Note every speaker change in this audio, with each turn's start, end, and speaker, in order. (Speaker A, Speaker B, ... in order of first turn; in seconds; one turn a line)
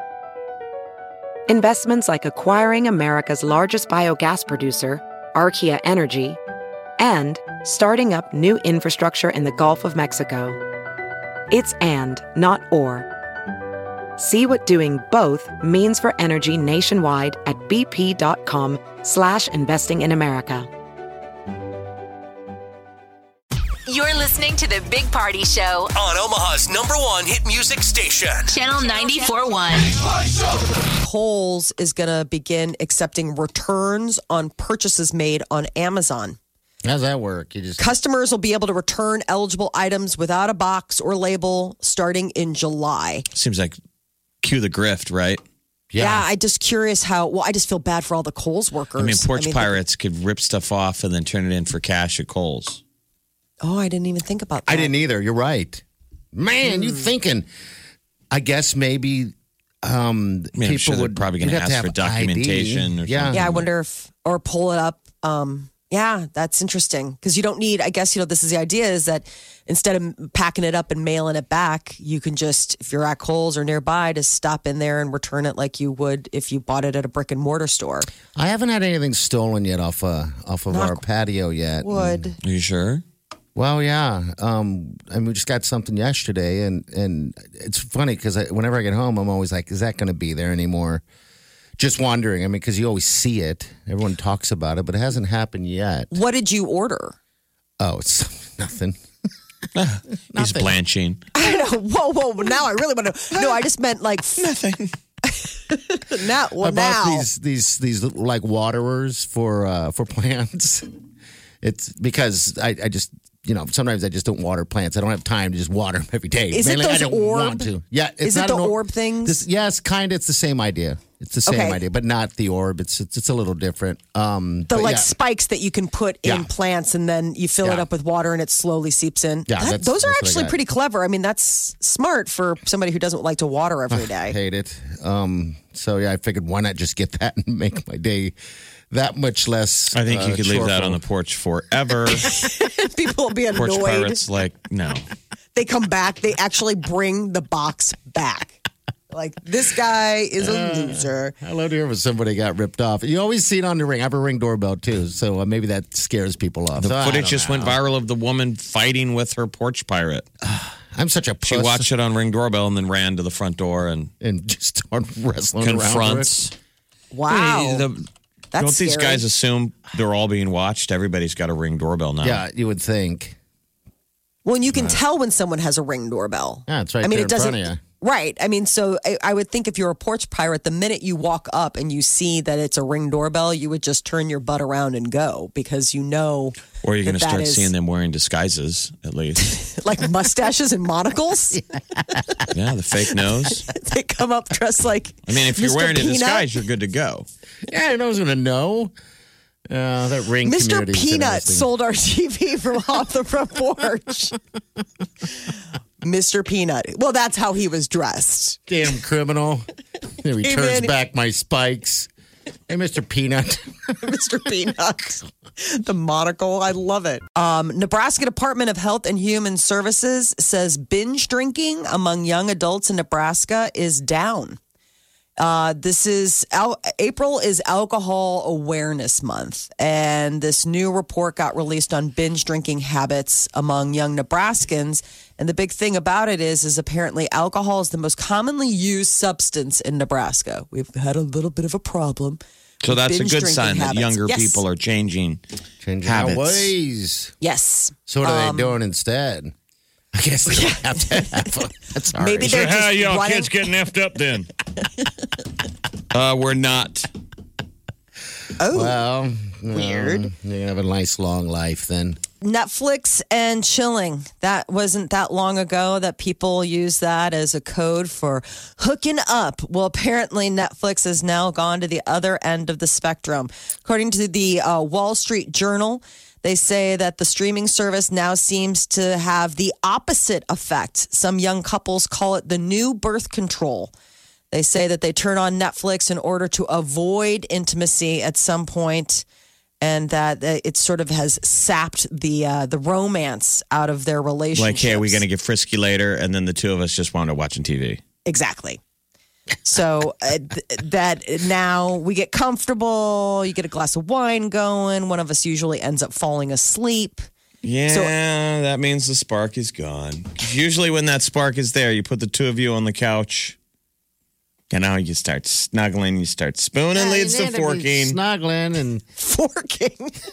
Speaker A: 1.5-6.4
Speaker A: 7.0-10.6
Speaker A: 11.5-13.1
Speaker A: 14.2-20.7
Speaker B: 23.9-25.9
Speaker C: 25.9-28.6
Speaker B: 28.5-30.0
Speaker D: 30.9-36.4
Speaker E: 36.9-37.8
Speaker D: 37.8-43.3
Speaker F: 43.3-43.8
Speaker F: 44.4-45.4
Speaker E: 45.9-46.3
Speaker D: 46.0-49.8
Speaker F: 49.0-52.8
Speaker D: 53.6-54.9
Speaker E: 54.7-55.8
Speaker E: 56.3-57.5
Speaker D: 56.6-57.1
Speaker E: 58.3-63.6
Speaker F: 60.6-63.7
Speaker D: 63.3-78.1
Speaker E: 78.3-82.3
Speaker D: 80.7-81.0
Speaker D: 81.8-82.4
Speaker F: 82.4-83.0
Speaker E: 83.5-91.0
Speaker E: 91.8-96.2
Speaker D: 96.1-97.1
Speaker E: 97.8-99.0
Speaker F: 99.8-101.2
Speaker E: 100.3-100.8
Speaker D: 101.3-104.5
Speaker F: 104.4-104.9
Speaker D: 105.2-107.3
Speaker E: 106.6-110.9
Speaker E: 111.6-125.1
Speaker D: 116.5-117.7
Speaker D: 118.2-119.4
Speaker D: 121.5-121.8
Speaker D: 124.7-134.4
Speaker E: 126.2-126.5
Speaker E: 129.5-130.6
Speaker E: 133.9-138.3
Speaker E: 138.9-141.0
Speaker F: 139.9-142.4
Speaker D: 142.2-144.2
Speaker F: 143.6-145.1
Speaker D: 145.6-148.6
Speaker D: 149.1-151.3
Speaker E: 150.4-157.8
Speaker F: 156.8-160.2
Speaker E: 160.4-161.9
Speaker F: 161.4-164.1
Speaker E: 164.2-166.4
Speaker F: 165.6-166.5
Speaker D: 167.1-167.9
Speaker F: 167.3-168.0
Speaker D: 168.5-169.3
Speaker F: 168.6-172.4
Speaker E: 172.2-173.4
Speaker D: 174.4-187.7
Speaker E: 174.7-175.0
Speaker E: 176.7-177.8
Speaker F: 186.8-189.6
Speaker D: 189.4-191.6
Speaker F: 192.5-193.7
Speaker D: 193.4-196.6
Speaker F: 195.3-197.3
Speaker E: 197.7-198.9
Speaker E: 199.7-201.7
Speaker D: 200.4-204.4
Speaker D: 206.0-208.6
Speaker E: 208.7-209.7
Speaker E: 210.2-212.1
Speaker D: 210.4-210.9
Speaker E: 212.7-213.9
Speaker D: 214.0-224.6
Speaker D: 225.4-244.6
Speaker F: 242.8-245.4
Speaker E: 245.8-247.3
Speaker F: 246.0-246.7
Speaker D: 247.4-248.8
Speaker E: 248.1-249.5
Speaker E: 250.2-252.6
Speaker D: 250.5-251.5
Speaker D: 252.2-253.6
Speaker F: 252.4-254.5
Speaker F: 256.1-257.1
Speaker D: 258.6-259.0
Speaker E: 258.7-262.2
Speaker D: 259.7-260.3
Speaker D: 262.4-283.9
Speaker D: 284.5-289.3
Speaker D: 289.8-295.2
Speaker F: 294.6-298.0
Speaker D: 298.3-298.8
Speaker D: 299.6-307.3
Speaker F: 307.6-313.6
Speaker D: 307.9-308.1
Speaker F: 314.7-318.2
Speaker E: 316.9-319.0
Speaker D: 319.2-320.1